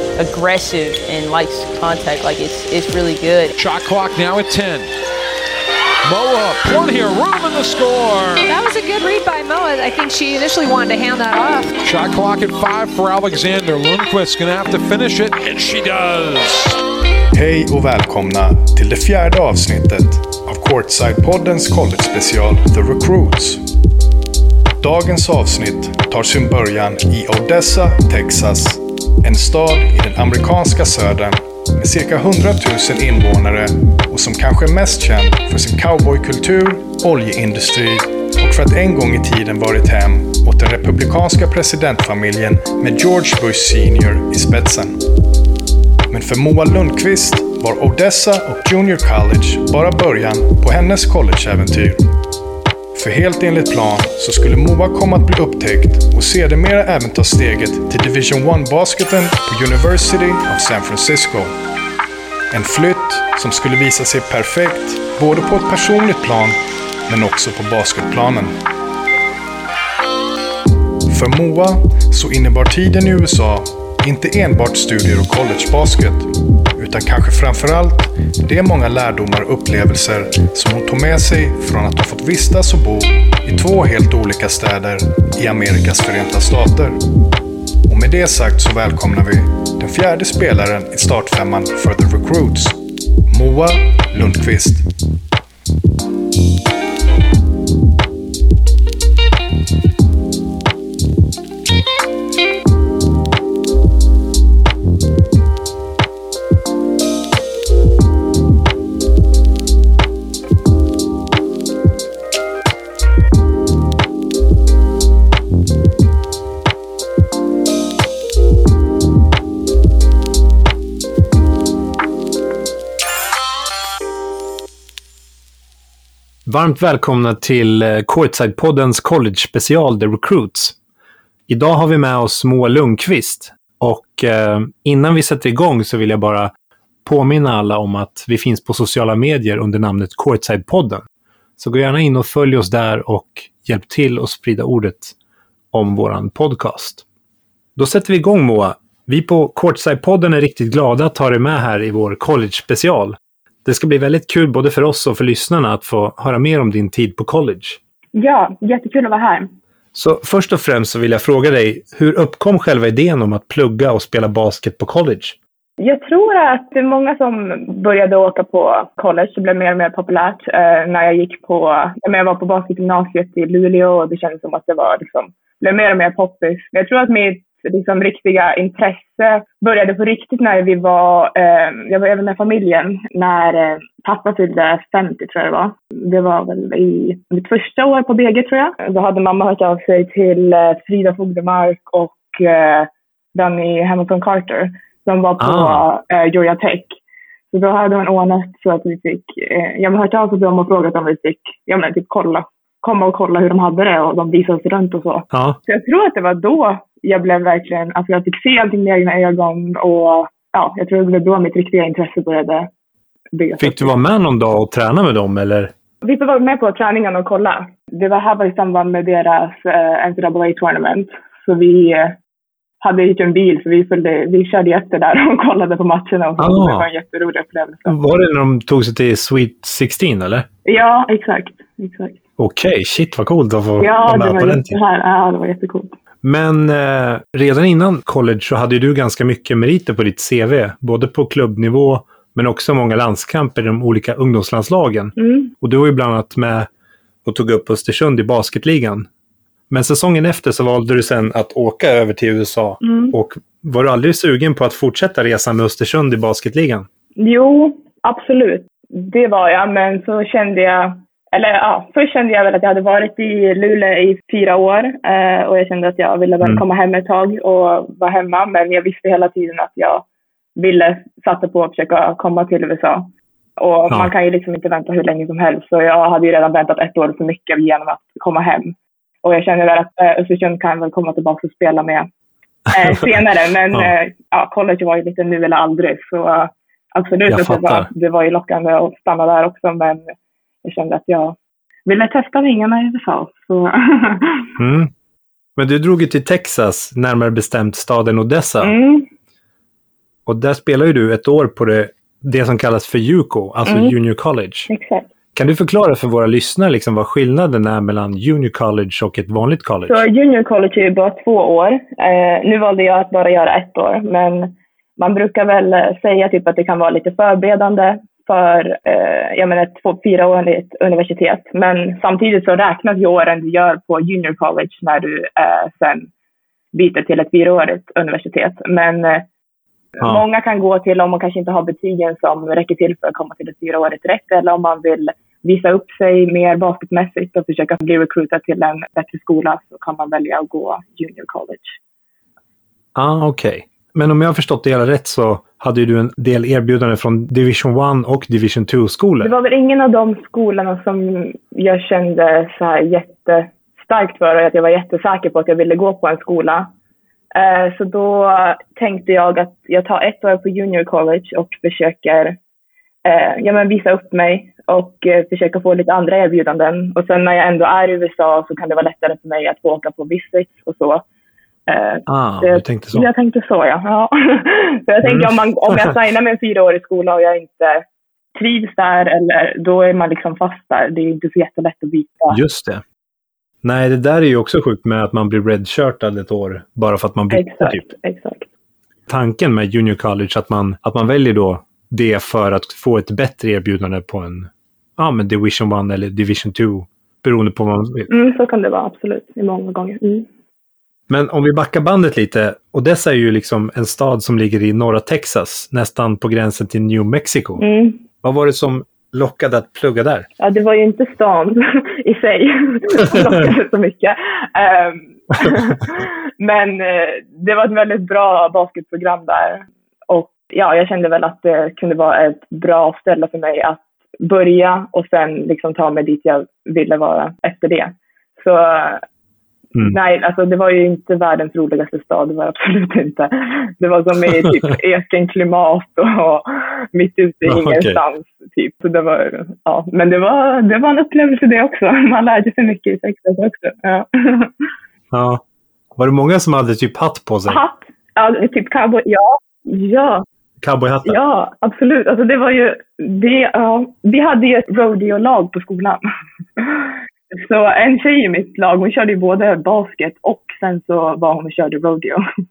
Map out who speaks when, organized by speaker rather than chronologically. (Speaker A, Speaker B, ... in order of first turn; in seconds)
Speaker A: 0.2-3.5
Speaker B: 3.6-4.9, 6.0-8.5, 11.8-16.8
Speaker C: 8.5-11.8
Speaker D: 17.3-23.7, 24.8-45.0, 46.1-52.1, 52.9-61.6, 62.5-68.6, 71.1-87.0, 87.9-94.9
Speaker E: 126.5-130.8, 131.5-136.5, 137.1-141.0, 141.6-145.2, 145.7-147.0, 147.8-157.8, 159.9-165.4, 195.4-195.8, 205.3-205.6, 213.6-215.7, 226.4-226.9, 227.9-230.5, 232.4-234.8, 236.2-246.7, 247.2-249.1, 249.7-256.9, 282.7-283.0, 287.3-287.9, 294.6-294.9, 295.6-298.8, 300.3-304.7, 305.4-310.1, 342.9-349.3, 372.1-373.1, 375.0-375.9, 382.3-382.8, 383.6-387.8, 389.1-398.1, 401.1-407.6, 408.2-410.3, 437.5-438.0, 445.1-445.4, 446.0-447.6, 450.6-451.2
Speaker F: 158.2-159.5, 165.8-197.0, 197.5-212.7, 213.3-213.9, 216.0-222.2, 222.8-228.0, 230.7-232.2, 233.8-236.0, 245.2-245.5, 252.8-253.2, 257.2-270.1, 270.6-282.1, 282.7-294.5, 298.6-299.1, 303.7-304.0, 304.7-305.1, 309.9-326.1, 326.7-329.3, 330.0-341.8, 349.2-356.7, 357.3-362.4, 363.1-371.0, 371.7-377.8, 378.4-382.4, 387.3-388.5, 398.1-400.3, 407.6-408.0, 410.4-429.0, 429.8-444.5, 447.5-450.2, 451.1-456.0, 456.6-462.2